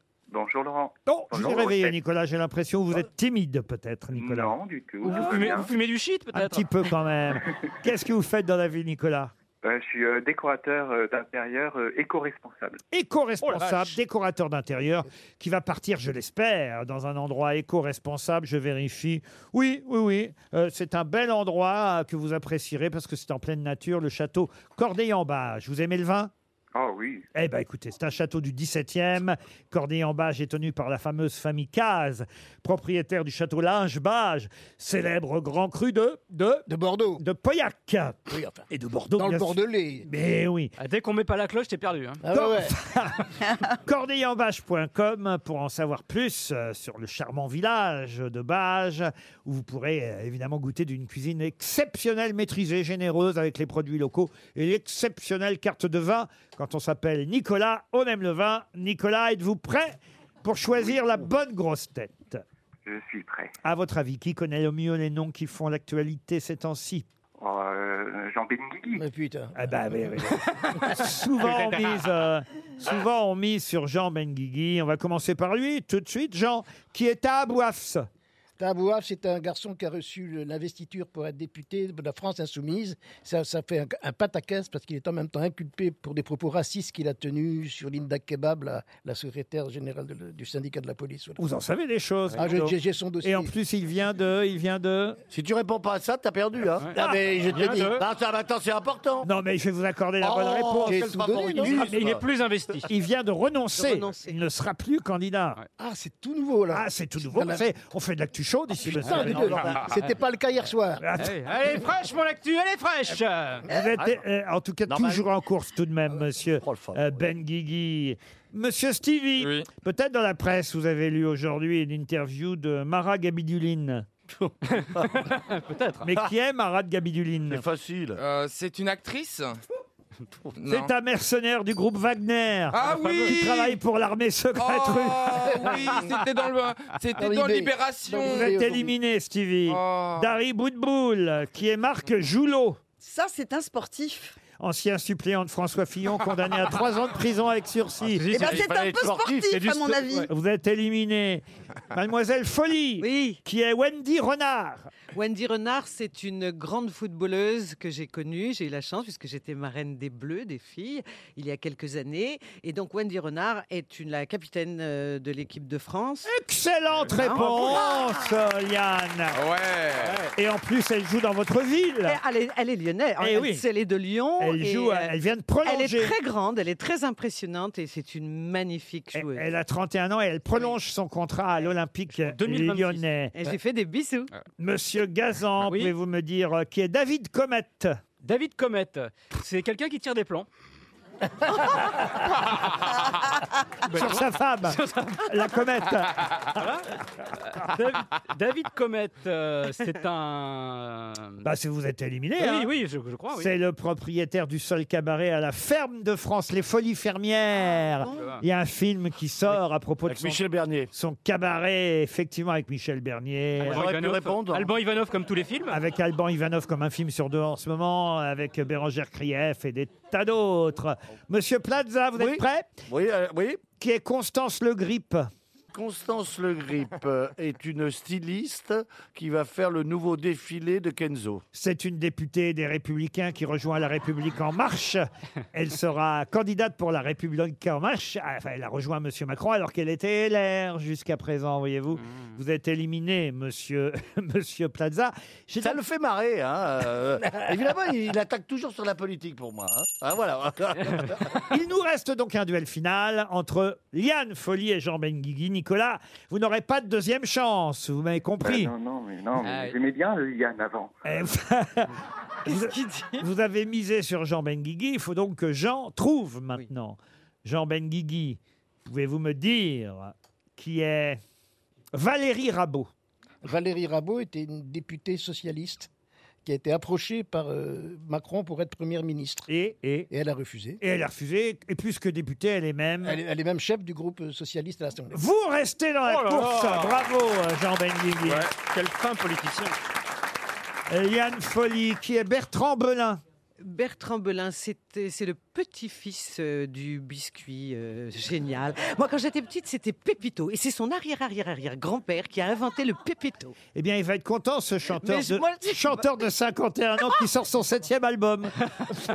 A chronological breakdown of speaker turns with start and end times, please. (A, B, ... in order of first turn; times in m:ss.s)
0:00.3-0:02.0 A
0:01.1-0:04.6 B
0:04.2-0:05.7 A
0:05.0-0:06.7 C
0:06.3-0:09.3 B
0:09.6-0:12.8 A
0:12.9-0:26.3 B
0:13.4-0:14.0 C
0:26.7-0:27.2 A
0:27.4-0:40.7 B
0:36.7-0:37.2 D
0:38.3-0:40.1 D
0:40.8-0:42.2 C
0:42.2-0:42.8 D
0:42.3-1:02.4 B
1:02.8-1:03.5 A
1:03.6-1:07.0 B
1:07.4-1:09.0 A
1:09.0-1:09.8 D
1:09.6-1:18.1 B
1:11.4-1:12.1 C
1:18.6-1:31.4 D
1:31.4-1:35.2 B
1:32.4-1:33.5 D
1:35.3-1:39.3 E
1:36.8-1:38.1 C
1:39.2-1:41.0 B
1:40.2-1:42.2 E
1:40.8-1:41.9 D
1:41.6-1:42.9 C
1:42.9-1:45.6 B
1:43.8-1:44.4 F
1:45.8-1:47.7 D
1:46.7-1:49.7 B
1:48.8-1:51.0 D
1:49.2-1:49.5 E
1:51.0-1:51.4 B
1:51.2-1:53.7 C
1:53.7-2:04.1 B
1:54.9-1:55.2 E
1:56.6-1:57.2 E
1:59.4-1:59.7 G
2:04.4-2:05.2 E
2:04.7-2:06.1 C
2:06.0-2:07.6 B
2:07.5-2:08.3 E
2:08.2-2:09.6 G
2:10.6-2:10.9 G
2:10.7-2:15.6 B
2:12.7-2:13.8 G
2:12.9-2:13.2 D
2:14.6-2:18.5 G
2:15.4-2:16.1 D
2:17.2-2:18.9 D
2:18.2-2:22.8 B
2:19.7-2:20.3 G
2:23.0-2:24.3 H
2:24.6-2:28.4 B
2:28.0-2:28.8 C
2:28.3-2:29.7 E
2:28.4-2:30.3 H
2:29.4-2:30.3 C
2:30.3-2:34.9 B
2:33.0-2:33.4 F
2:35.1-2:46.3 F
2:46.2-2:49.4 B
2:47.1-2:47.7 F
2:49.4-2:50.2 G
2:50.0-2:50.3 C
2:50.3-2:52.2 B
2:52.1-2:59.5 F
2:53.2-2:53.6 B
2:54.4-2:56.2 B
2:59.1-3:03.4 B
3:02.2-3:03.0 C
3:03.4-3:04.3 F
3:04.6-3:07.9 B
3:05.7-3:05.9 C
3:08.2-3:10.5 C
3:12.0-3:13.0 C
3:13.9-3:15.4 C
3:13.9-3:16.6 B
3:16.5-3:21.4 C
3:21.4-3:22.7 B
3:22.4-3:23.5 C
3:23.3-3:33.9 B
3:28.0-3:28.3 F
3:30.1-3:30.9 E
3:33.6-3:35.8 C
3:33.6-3:34.7 E
3:35.7-3:42.8 B
3:42.2-3:43.6 E
3:43.8-3:45.2 B
3:45.7-3:51.4 E
3:51.5-4:05.8 B
4:05.6-4:11.4 E
4:11.5-4:18.7 B
4:18.4-4:21.0 A
4:19.4-4:19.8 C
4:21.1-4:21.9 B
4:22.4-4:23.3 F
4:22.5-4:31.2 B
4:31.9-4:32.9 B
4:33.4-4:35.9 D
4:36.4-4:39.5 D
4:39.5-4:40.1 B
4:40.1-4:40.8 D
4:40.8-4:43.2 B
4:43.0-4:45.2 D
4:45.1-4:48.5 B
4:46.0-4:47.1 C
4:48.2-4:49.8 C
4:50.9-4:53.2 B
4:53.6-5:03.6 F
5:03.7-5:08.5 B
5:05.0-5:06.0 F